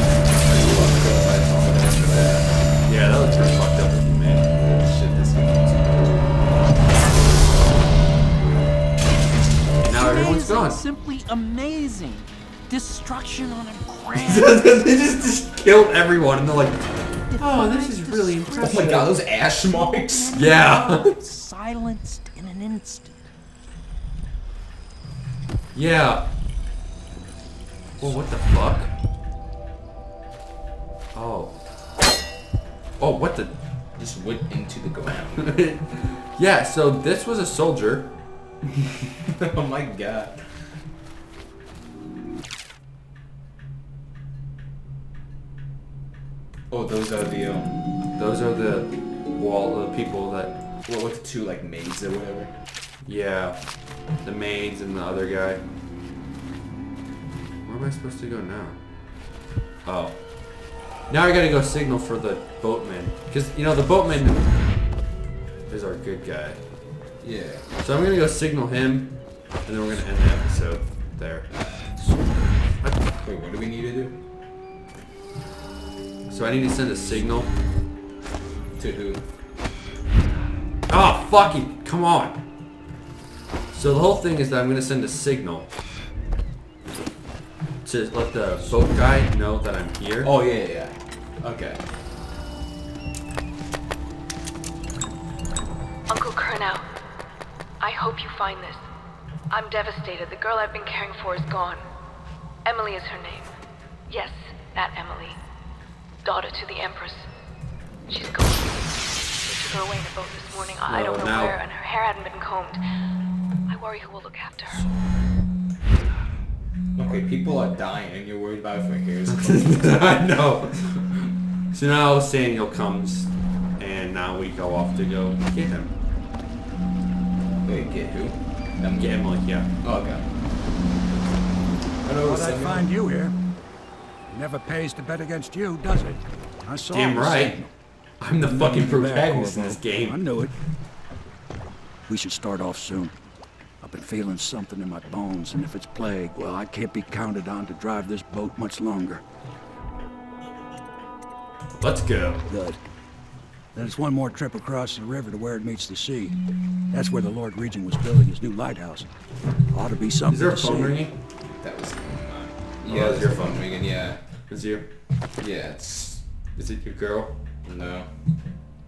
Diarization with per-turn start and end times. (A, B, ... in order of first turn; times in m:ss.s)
0:00.4-0:04.5 A
0:01.5-0:02.5 B
0:04.5-0:06.3 B
0:09.8-0:10.8 A
0:09.9-0:15.5 C
0:14.1-0:16.8 A
0:17.2-0:23.3 C
0:17.4-0:19.1 A
0:18.6-0:20.4 B
0:20.3-0:21.1 A
0:25.7-0:26.3 A
0:28.0-0:28.9 A
0:31.1-0:31.6 A
0:33.0-0:33.5 A
0:34.0-0:35.6 B
0:35.4-0:38.2 A
0:39.4-0:40.4 B
0:46.7-0:47.9 B
0:48.1-0:50.6 A
0:50.8-0:52.5 B
0:53.0-0:53.6 A
0:54.1-0:55.6 A
0:57.6-0:58.8 A
0:59.8-1:04.5 A
1:05.7-1:06.6 A
1:07.2-1:07.6 B
1:07.8-1:11.5 A
1:11.5-1:12.1 B
1:13.2-1:14.2 B
1:16.3-1:17.5 A
1:18.8-1:19.2 B
1:20.9-1:22.4 A
1:23.7-1:25.7 A
1:27.8-1:30.3 A
1:30.2-1:31.8 B
1:36.1-1:36.8 D
1:37.8-1:38.8 D
1:39.5-1:41.8 D
1:42.6-1:43.5 D
1:44.1-1:45.4 D
1:46.2-1:47.3 D
1:48.1-1:52.8 D
1:50.8-1:51.6 A
1:53.7-1:54.9 D
1:57.0-2:01.1 B
1:59.3-2:00.9 A
2:01.7-2:05.9 A
2:07.6-2:10.2 B
2:08.9-2:09.7 A
2:12.0-2:12.9 B
2:12.2-2:13.3 E
2:14.3-2:17.7 E
2:16.9-2:20.2 A
2:18.4-2:20.6 E
2:22.1-2:23.1 E
2:23.8-2:29.2 E
2:31.8-2:32.4 A
2:32.5-2:32.8 E
2:33.7-2:39.1 E
2:39.7-2:41.0 E
2:40.3-2:41.1 A
2:41.6-2:44.4 B
2:42.8-2:44.9 A
2:45.3-2:46.3 B
2:46.5-2:47.4 A
2:47.6-2:48.1 B